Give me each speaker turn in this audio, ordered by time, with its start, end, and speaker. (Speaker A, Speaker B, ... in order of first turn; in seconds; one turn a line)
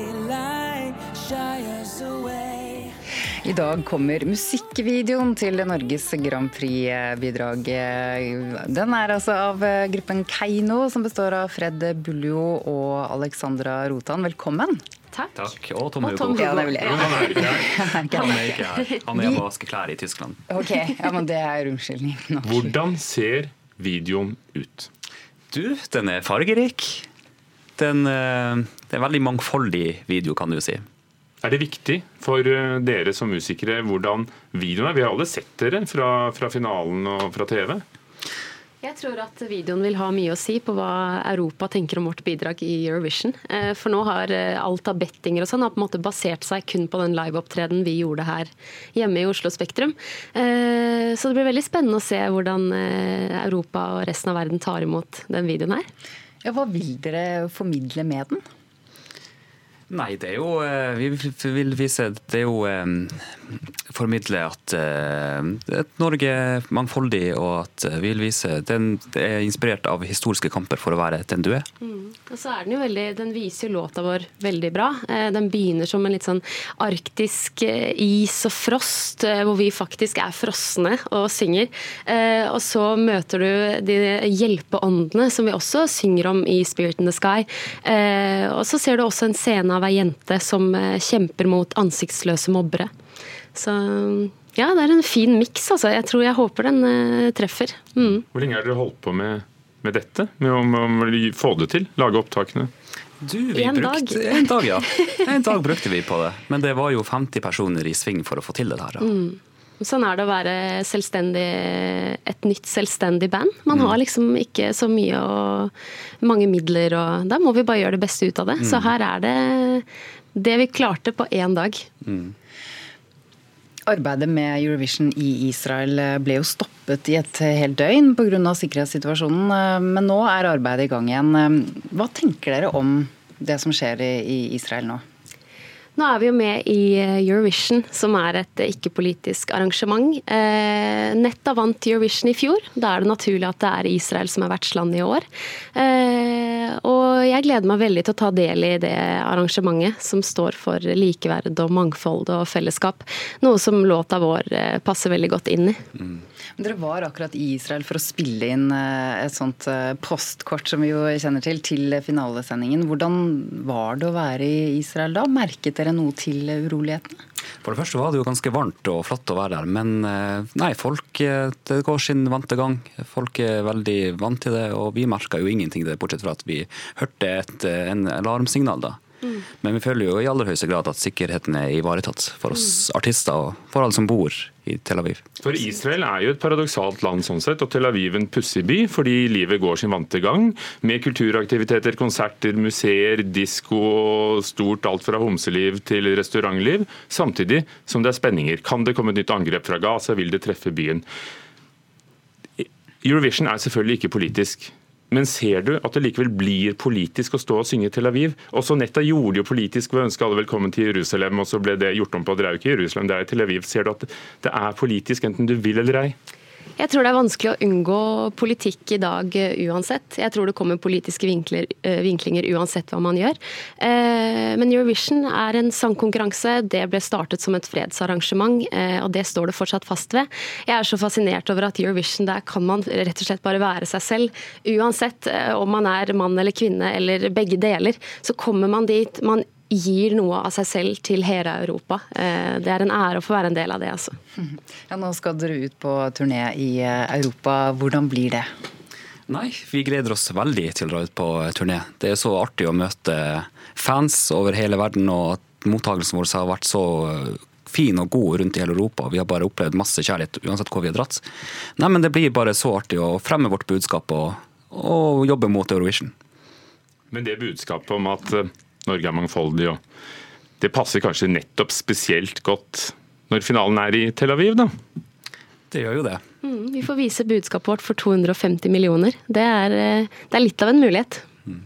Speaker A: 3.4-14.8
Speaker B: 15.1-15.5
Speaker C: 15.3-17.7
Speaker B: 16.0-17.1
Speaker A: 16.4-18.3
Speaker B: 18.1-19.0
Speaker C: 18.2-20.4
Speaker A: 19.2-19.4
Speaker A: 20.5-22.7
Speaker D: 22.4-24.9
Speaker C: 25.5-27.1
Speaker C: 27.8-30.9
Speaker D: 31.4-37.8
Speaker B: 38.8-55.9
Speaker A: 56.4-58.4
Speaker C: 59.9-63.3
Speaker C: 63.9-71.7
Speaker B: 71.8-92.9
Speaker B: 93.5-98.2
Speaker D: 98.3-102.7
Speaker C: 103.2-109.1
Speaker B: 103.5-105.3
Speaker B: 109.0-121.9
Speaker C: 113.7-114.0
Speaker C: 118.6-118.9
Speaker C: 122.1-122.3
Speaker A: 123.9-135.0
Speaker B: 136.0-145.2
Speaker B: 145.8-155.8
Speaker A: 156.6-167.2
Speaker C: 167.6-179.0
Speaker C: 179.6-185.2
Speaker D: 185.4-201.1
Speaker D: 202.6-216.2
Speaker B: 216.8-244.2
Speaker A: 244.4-248.5
Speaker C: 249.3-266.1
Speaker D: 267.1-269.8
Speaker D: 270.6-274.7
Speaker C: 275.7-276.2
Speaker B: 276.4-281.2